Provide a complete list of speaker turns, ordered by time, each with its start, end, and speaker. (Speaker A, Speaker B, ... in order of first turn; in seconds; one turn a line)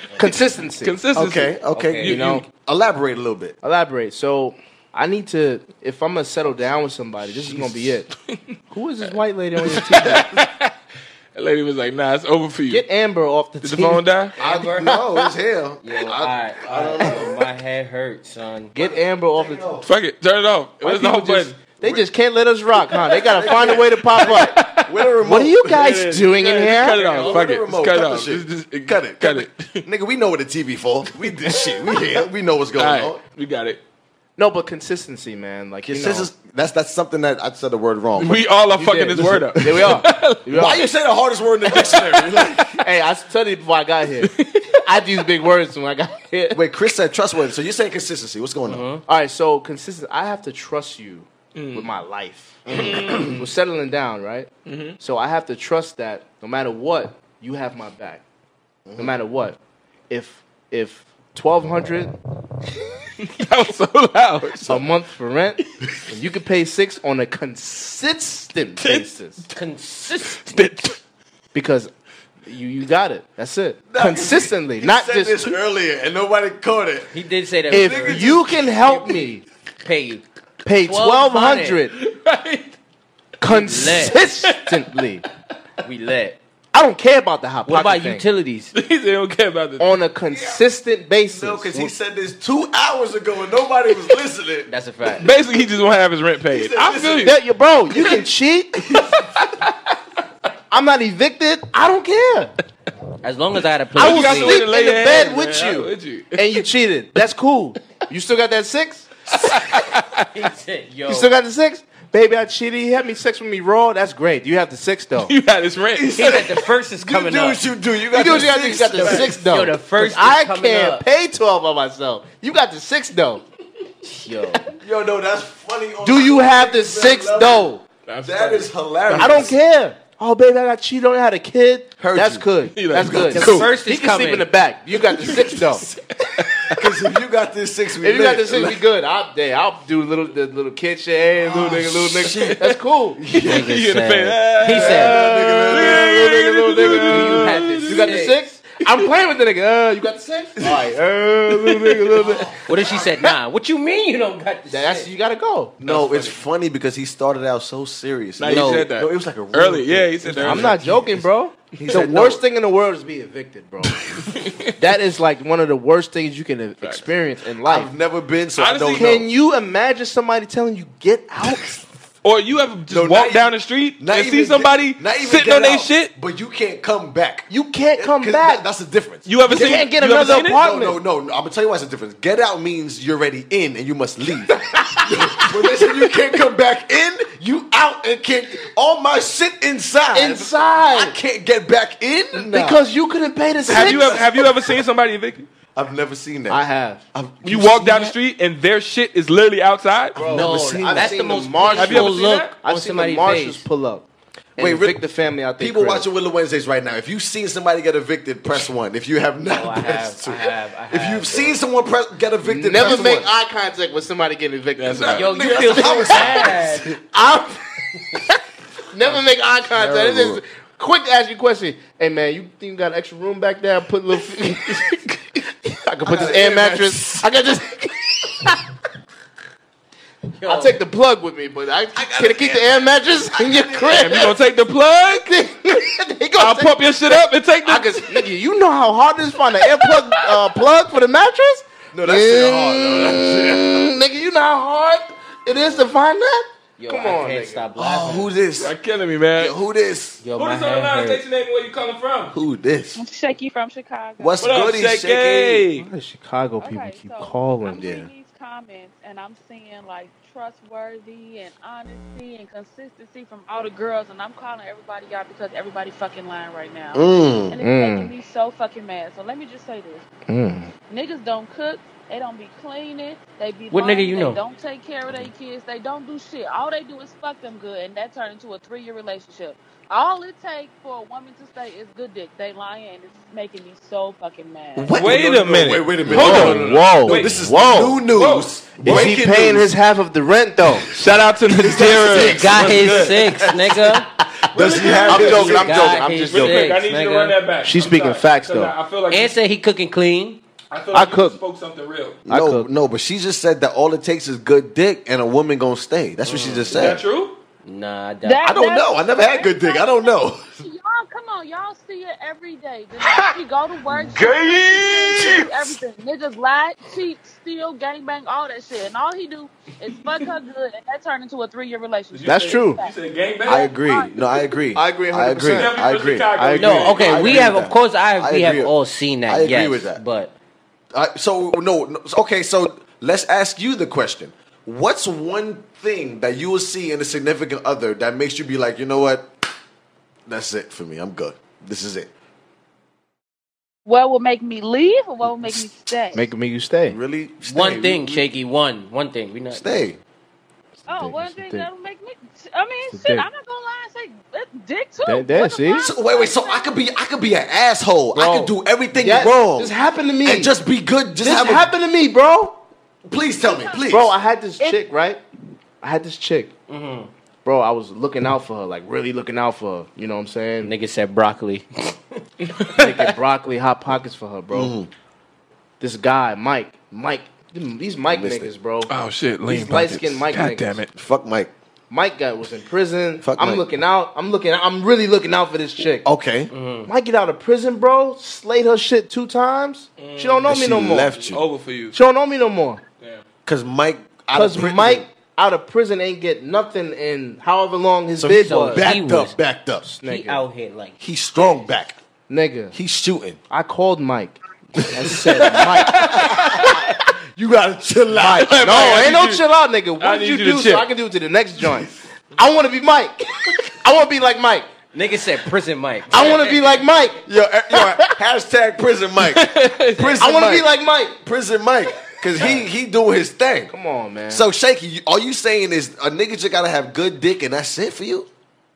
Speaker A: 0.2-1.0
Speaker B: 0.8-2.4
Speaker C: 1.1-3.6
Speaker D: 1.7-2.1
Speaker A: 2.0-2.4
Speaker A: 3.6-8.1
Speaker B: 8.3-10.7
Speaker A: 8.7-10.4
Speaker B: 11.3-12.8
Speaker A: 12.7-14.1
Speaker B: 13.6-14.3
Speaker D: 14.4-15.0
Speaker C: 14.4-17.4
Speaker D: 15.8-18.7
Speaker A: 18.7-19.7
Speaker C: 18.8-19.9
Speaker B: 19.8-21.6
Speaker A: 20.8-24.7
Speaker C: 21.8-22.1
Speaker C: 23.1-26.1
Speaker B: 23.6-25.1
Speaker A: 25.2-27.0
Speaker B: 25.7-29.8
Speaker C: 26.9-33.2
Speaker D: 27.0-27.4
Speaker B: 32.8-33.8
Speaker A: 34.4-36.3
Speaker C: 35.9-38.5
Speaker B: 38.2-40.5
Speaker A: 38.8-40.9
Speaker C: 39.7-40.0
Speaker C: 40.5-42.8
Speaker B: 41.7-42.7
Speaker A: 42.8-46.6
Speaker B: 44.2-44.7
Speaker C: 46.5-48.9
Speaker D: 48.7-49.0
Speaker A: 49.1-58.2
Speaker B: 51.5-51.9
Speaker C: 52.7-53.3
Speaker B: 52.7-53.4
Speaker B: 54.7-55.0
Speaker C: 58.9-59.2
Speaker A: 59.0-59.6
Speaker A: 60.1-62.1
Speaker B: 63.2-64.7
Speaker C: 64.6-64.8
Speaker A: 64.7-69.4
Speaker B: 68.8-69.1
Speaker D: 69.5-70.6
Speaker B: 70.3-71.0
Speaker A: 71.5-71.9
Speaker A: 72.5-75.5
Speaker C: 73.9-77.1
Speaker D: 77.1-79.2
Speaker C: 77.7-78.6
Speaker A: 77.7-79.4
Speaker D: 79.8-80.2
Speaker A: 80.7-81.9
Speaker D: 80.8-81.8
Speaker B: 82.0-82.8
Speaker A: 83.4-85.2
Speaker D: 83.5-84.2
Speaker B: 84.4-84.8
Speaker D: 85.8-86.4
Speaker A: 86.7-88.3
Speaker D: 87.7-88.7
Speaker B: 88.7-90.0
Speaker A: 89.8-91.9
Speaker C: 90.3-90.6
Speaker C: 91.3-94.7
Speaker D: 94.7-95.3
Speaker B: 95.2-97.4
Speaker C: 96.5-97.4
Speaker A: 97.2-99.2
Speaker B: 99.4-99.7
Speaker A: 100.7-102.5
Speaker D: 103.2-104.6
Speaker A: 104.0-109.5
Speaker B: 104.0-106.7
Speaker B: 109.4-110.2
Speaker D: 110.3-111.3
Speaker A: 111.1-115.3
Speaker B: 115.2-116.4
Speaker C: 116.0-119.7
Speaker D: 116.1-117.6
Speaker A: 118.1-123.4
Speaker D: 118.9-121.0
Speaker A: 124.2-124.6
Speaker C: 124.8-127.7
Speaker A: 126.0-127.8
Speaker B: 128.1-129.5
Speaker C: 128.2-129.6
Speaker A: 129.2-135.9
Speaker C: 132.0-133.7
Speaker B: 132.8-133.7
Speaker D: 133.3-134.5
Speaker B: 135.2-135.5
Speaker B: 136.2-136.9
Speaker C: 136.7-138.8
Speaker A: 138.0-143.2
Speaker C: 141.4-142.6
Speaker B: 142.2-142.8
Speaker C: 143.2-143.8
Speaker B: 143.3-148.3
Speaker D: 143.4-145.2
Speaker C: 144.7-146.3
Speaker A: 144.7-152.6
Speaker D: 146.9-148.4
Speaker B: 151.5-152.3
Speaker D: 152.7-155.1
Speaker A: 154.7-155.8
Speaker C: 155.8-161.2
Speaker B: 155.8-156.4
Speaker B: 158.4-161.0
Speaker D: 158.5-158.9
Speaker A: 160.4-164.1
Speaker C: 161.8-162.4
Speaker B: 164.2-164.8
Speaker A: 164.8-167.9
Speaker C: 167.7-169.3
Speaker B: 168.6-169.2
Speaker A: 168.9-171.9
Speaker B: 172.2-176.1
Speaker C: 172.9-179.9
Speaker A: 177.5-178.6
Speaker B: 179.3-180.6
Speaker A: 179.5-181.0
Speaker C: 180.4-192.8
Speaker A: 184.7-185.4
Speaker A: 190.1-191.2
Speaker A: 192.3-194.5
Speaker B: 193.7-195.5
Speaker C: 193.7-194.2
Speaker C: 195.8-196.6
Speaker A: 196.5-197.0
Speaker C: 197.1-198.2
Speaker B: 197.4-200.2
Speaker A: 200.2-204.1
Speaker D: 200.2-203.6
Speaker C: 200.4-201.1
Speaker B: 201.8-202.5
Speaker C: 204.6-205.1
Speaker A: 204.6-206.1
Speaker C: 205.6-213.3
Speaker D: 209.5-211.6
Speaker A: 212.4-216.5
Speaker B: 214.8-215.3
Speaker C: 214.9-217.0
Speaker D: 215.1-217.0
Speaker A: 217.0-217.6
Speaker A: 218.9-228.6
Speaker B: 219.8-220.3
Speaker C: 220.0-220.3
Speaker C: 226.0-227.3
Speaker D: 230.4-230.8
Speaker A: 230.4-234.3
Speaker C: 231.9-234.3
Speaker B: 234.0-235.3
Speaker A: 235.1-247.7
Speaker B: 236.4-238.2
Speaker B: 239.9-240.1
Speaker C: 241.9-243.9
Speaker D: 246.8-248.3
Speaker C: 247.8-248.8
Speaker B: 248.6-249.5
Speaker C: 249.4-250.2
Speaker D: 250.2-251.2
Speaker B: 250.3-252.3
Speaker C: 252.3-253.0
Speaker E: 252.9-254.4
Speaker C: 254.2-255.7
Speaker B: 254.4-255.9
Speaker A: 255.8-257.9
Speaker E: 256.6-270.1
Speaker C: 257.7-258.1
Speaker C: 266.9-267.6
Speaker A: 267.6-268.1
Speaker A: 270.3-270.7
Speaker E: 270.9-284.9
Speaker D: 273.7-274.4
Speaker C: 284.8-289.7
Speaker B: 284.9-287.4
Speaker A: 286.1-288.0
Speaker B: 288.0-289.2
Speaker A: 288.8-290.9
Speaker B: 290.9-293.4
Speaker C: 291.5-296.0
Speaker D: 292.2-294.1
Speaker B: 294.5-299.4
Speaker A: 295.0-296.8
Speaker D: 295.2-297.4
Speaker A: 297.6-298.7
Speaker D: 299.1-300.4
Speaker B: 300.7-302.2
Speaker A: 300.9-301.4
Speaker C: 302.3-307.0
Speaker A: 302.3-302.7
Speaker D: 306.2-306.8
Speaker B: 306.7-307.4
Speaker D: 307.6-308.5
Speaker E: 308.2-322.9
Speaker C: 308.4-310.5
Speaker B: 322.1-323.7
Speaker A: 322.2-322.8
Speaker C: 323.5-328.7
Speaker E: 323.5-324.5
Speaker A: 324.8-325.8
Speaker B: 325.5-327.4
Speaker A: 326.3-327.1
Speaker D: 326.6-330.3
Speaker C: 329.3-330.0
Speaker C: 330.9-339.3
Speaker C: 340.3-342.1
Speaker E: 343.9-346.3
Speaker C: 345.3-345.7
Speaker A: 346.1-347.0
Speaker C: 346.9-348.3
Speaker D: 347.4-349.9
Speaker C: 349.5-350.0
Speaker A: 350.9-351.7
Speaker E: 350.9-356.8
Speaker A: 352.9-353.3
Speaker A: 355.1-355.9
Speaker C: 355.8-361.7
Speaker A: 358.1-360.5
Speaker A: 361.2-362.6
Speaker C: 363.1-364.1
Speaker E: 363.4-363.9
Speaker A: 363.9-365.2
Speaker A: 365.8-366.5
Speaker D: 366.7-367.1
Speaker A: 367.4-370.7
Speaker D: 370.6-372.0
Speaker A: 372.7-374.7
Speaker C: 374.5-374.9
Speaker A: 375.8-378.9
Speaker C: 378.1-378.5
Speaker B: 378.9-380.9
Speaker A: 379.5-380.8
Speaker C: 380.9-381.5
Speaker A: 381.9-386.1
Speaker C: 383.2-383.7
Speaker C: 386.0-386.5
Speaker D: 386.5-386.9
Speaker A: 386.9-391.1
Speaker B: 390.0-390.6
Speaker C: 390.5-391.4
Speaker B: 391.1-392.0
Speaker A: 391.9-392.8
Speaker C: 393.5-395.1
Speaker A: 394.3-398.8
Speaker C: 398.2-399.9
Speaker D: 398.4-399.4
Speaker A: 399.8-400.4
Speaker D: 400.0-401.6
Speaker C: 401.0-402.0
Speaker A: 402.3-402.8
Speaker C: 402.7-403.4
Speaker A: 403.5-406.8
Speaker C: 405.0-409.0
Speaker B: 405.6-406.8
Speaker B: 408.2-409.4
Speaker A: 408.2-414.7
Speaker B: 410.0-410.9
Speaker D: 414.9-416.8
Speaker A: 416.1-417.2
Speaker C: 417.2-423.7
Speaker A: 417.7-418.1
Speaker B: 419.2-420.2
Speaker A: 420.2-421.2
Speaker A: 423.7-424.4
Speaker C: 424.3-428.3